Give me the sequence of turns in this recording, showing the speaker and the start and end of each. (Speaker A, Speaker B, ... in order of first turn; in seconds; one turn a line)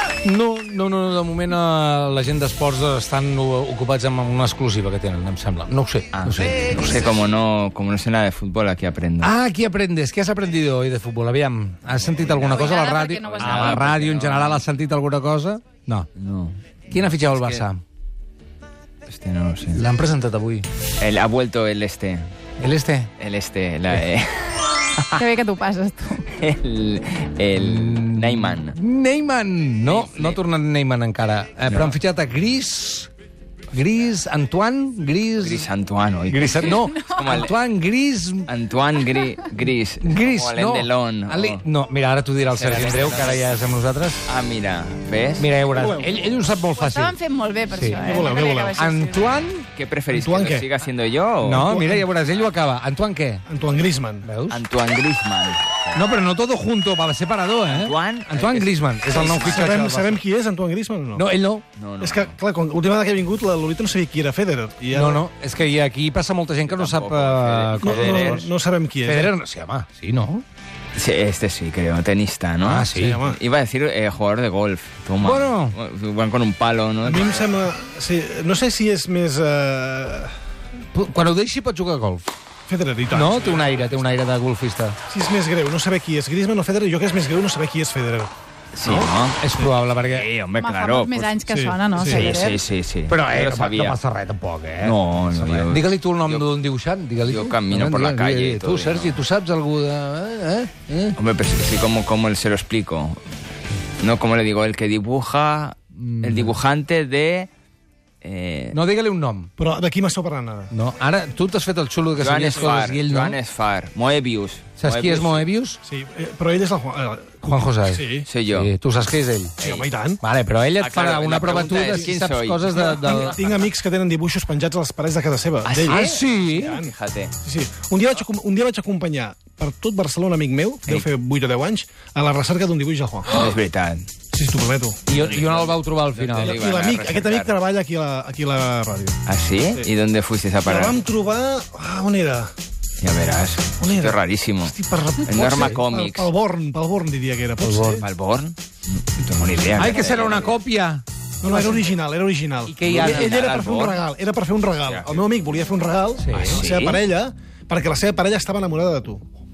Speaker A: 0.2-7.1
Speaker B: 6.1-9.3
Speaker A: 9.2-16.1
Speaker B: 11.9-14.6
Speaker C: 12.3-13.9
Speaker B: 16.1-17.7
Speaker A: 16.9-17.8
Speaker B: 19.1-19.8
Speaker A: 19.7-20.7
Speaker B: 21.0-22.3
Speaker A: 22.6-23.1
Speaker B: 23.2-25.2
Speaker C: 25.1-26.3
Speaker B: 26.3-28.8
Speaker A: 27.6-33.1
Speaker B: 29.9-30.4
Speaker B: 31.7-31.9
Speaker A: 33.7-35.7
Speaker B: 35.4-37.5
Speaker A: 36.3-38.5
Speaker C: 36.6-37.4
Speaker B: 38.5-41.6
Speaker A: 40.0-44.3
Speaker B: 42.5-43.6
Speaker B: 44.3-45.5
Speaker A: 45.4-47.1
Speaker C: 46.8-49.2
Speaker A: 47.7-49.7
Speaker D: 48.0-48.9
Speaker B: 49.7-51.7
Speaker D: 50.1-50.7
Speaker A: 51.4-53.5
Speaker D: 51.6-52.1
Speaker D: 53.5-54.3
Speaker A: 54.2-54.6
Speaker B: 54.5-56.0
Speaker A: 56.0-60.2
Speaker B: 57.7-59.8
Speaker D: 59.4-61.3
Speaker A: 61.1-61.6
Speaker B: 61.8-62.4
Speaker D: 62.0-65.2
Speaker A: 64.9-68.5
Speaker B: 66.7-68.5
Speaker D: 67.8-69.3
Speaker A: 69.0-70.4
Speaker B: 71.0-77.5
Speaker A: 72.6-73.2
Speaker D: 72.9-73.4
Speaker A: 75.2-75.8
Speaker D: 77.0-80.3
Speaker A: 80.9-82.3
Speaker D: 82.7-83.9
Speaker A: 83.1-85.0
Speaker D: 85.1-88.3
Speaker B: 88.7-89.4
Speaker D: 88.8-89.7
Speaker A: 89.4-90.3
Speaker B: 90.0-91.4
Speaker C: 90.6-92.6
Speaker D: 91.5-92.3
Speaker B: 92.0-94.0
Speaker A: 93.1-101.2
Speaker B: 94.8-96.5
Speaker B: 97.3-99.2
Speaker B: 101.2-103.2
Speaker B: 104.0-107.5
Speaker A: 106.0-106.5
Speaker B: 108.2-108.8
Speaker A: 108.7-109.5
Speaker D: 109.6-110.7
Speaker A: 110.7-113.4
Speaker B: 112.2-115.5
Speaker A: 114.8-115.8
Speaker D: 115.8-118.3
Speaker A: 117.4-119.6
Speaker B: 118.3-118.7
Speaker B: 119.6-119.9
Speaker D: 119.6-120.2
Speaker A: 120.2-123.4
Speaker B: 120.8-123.3
Speaker D: 121.7-122.1
Speaker D: 122.7-133.5
Speaker B: 125.7-127.3
Speaker A: 125.9-126.8
Speaker B: 133.3-134.1
Speaker D: 134.3-135.0
Speaker A: 135.1-136.6
Speaker B: 135.1-137.6
Speaker D: 136.4-139.2
Speaker B: 139.3-141.0
Speaker D: 140.7-142.5
Speaker B: 143.0-144.8
Speaker D: 143.8-148.1
Speaker B: 145.3-146.3
Speaker A: 147.6-148.0
Speaker B: 148.0-150.6
Speaker A: 149.8-151.8
Speaker D: 151.4-159.3
Speaker A: 152.7-153.4
Speaker B: 152.9-154.0
Speaker B: 154.9-155.2
Speaker A: 156.2-156.6
Speaker B: 156.3-157.0